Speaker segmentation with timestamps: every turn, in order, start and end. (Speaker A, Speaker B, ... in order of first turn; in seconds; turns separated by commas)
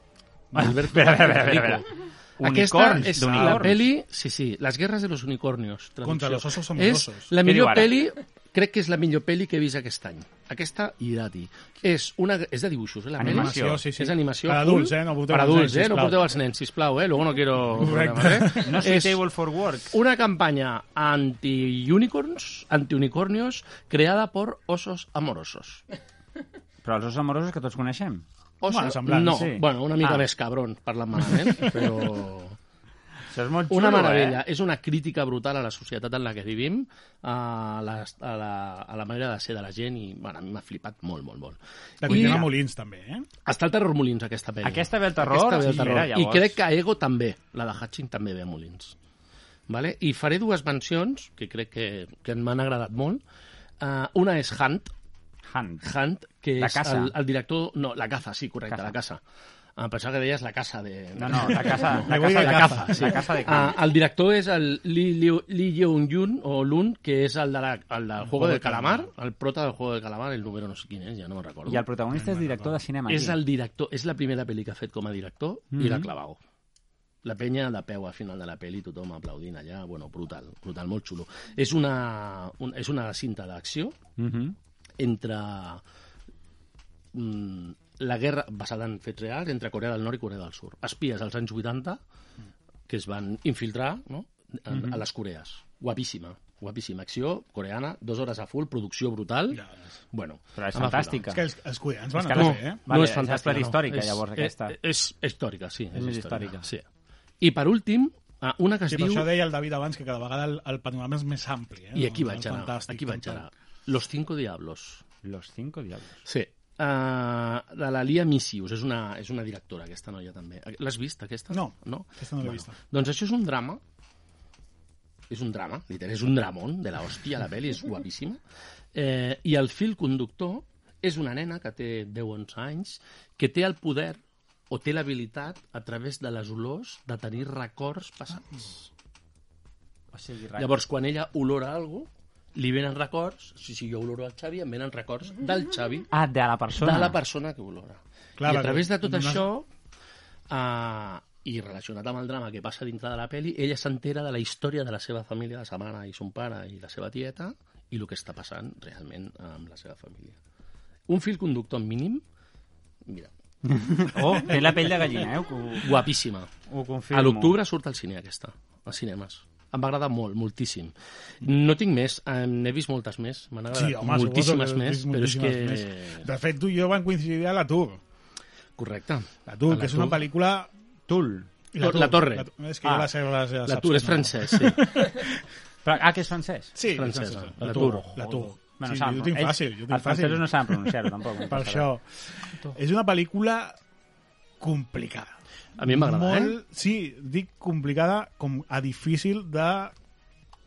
Speaker A: 0.5-19.2, Speaker B: 0.5-1.8, Speaker B: 2.4-3.8, Speaker C: 2.9-3.9, Speaker C: 6.0-7.3, Speaker B: 7.4-8.0, Speaker B: 13.2-13.8, Speaker C: 13.2-16.2, Speaker C: 17.8-18.7, Speaker B: 18.6-19.9, Speaker A: 19.9-25.8, Speaker B: 26.8-28.2, Speaker A: 28.6-32.6, Speaker C: 28.6-29.6, Speaker B: 29.2-30.2, Speaker B: 31.5-31.8, Speaker B: 33.3-34.4, Speaker A: 33.7-42.5, Speaker C: 42.0-43.3, Speaker B: 42.0-42.5, Speaker A: 43.4-48.9, Speaker B: 44.6-46.6, Speaker A: 49.7-53.2, Speaker A: 53.8-54.9, Speaker B: 55.5-55.9, Speaker A: 55.8-59.2, Speaker B: 56.6-57.1, Speaker B: 58.7-58.9, Speaker A: 59.8-71.8, Speaker B: 61.2-63.8, Speaker C: 62.1-63.1, Speaker C: 68.2-69.1, Speaker B: 71.7-73.4, Speaker C: 72.1-72.8, Speaker A: 73.1-76.4, Speaker B: 75.7-76.1, Speaker A: 77.2-84.0, Speaker B: 84.2-84.5, Speaker A: 85.0-85.8, Speaker A: 87.1-92.0, Speaker A: 92.9-101.2, Speaker B: 94.7-95.0, Speaker B: 100.5-101.4, Speaker C: 101.3-102.8, Speaker B: 102.2-104.8, Speaker A: 102.3-106.8, Speaker B: 105.9-106.7, Speaker A: 107.4-109.3, Speaker C: 108.9-113.5, Speaker A: 111.9-115.0, Speaker B: 115.2-116.2, Speaker A: 116.2-123.8, Speaker C: 121.5-122.8, Speaker A: 125.3-128.4, Speaker A: 128.9-138.9, Speaker B: 140.1-140.7, Speaker A: 140.6-146.1, Speaker B: 146.1-147.2, Speaker A: 146.8-149.7, Speaker C: 148.4-149.4, Speaker A: 150.5-160.4, Speaker A: 161.1-162.2, Speaker A: 163.1-163.3, Speaker B: 163.6-166.0, Speaker A: 165.8-166.5, Speaker B: 166.7-167.6, Speaker A: 167.1-176.3, Speaker C: 173.7-178.0, Speaker A: 178.8-180.2, Speaker C: 179.5-180.7, Speaker B: 181.1-181.5, Speaker C: 181.7-185.4, Speaker A: 181.8-183.1, Speaker A: 183.6-184.9, Speaker B: 185.8-186.8, Speaker C: 186.8-193.8, Speaker A: 186.9-188.1, Speaker B: 187.6-191.9, Speaker C: 194.6-199.9, Speaker A: 195.8-196.6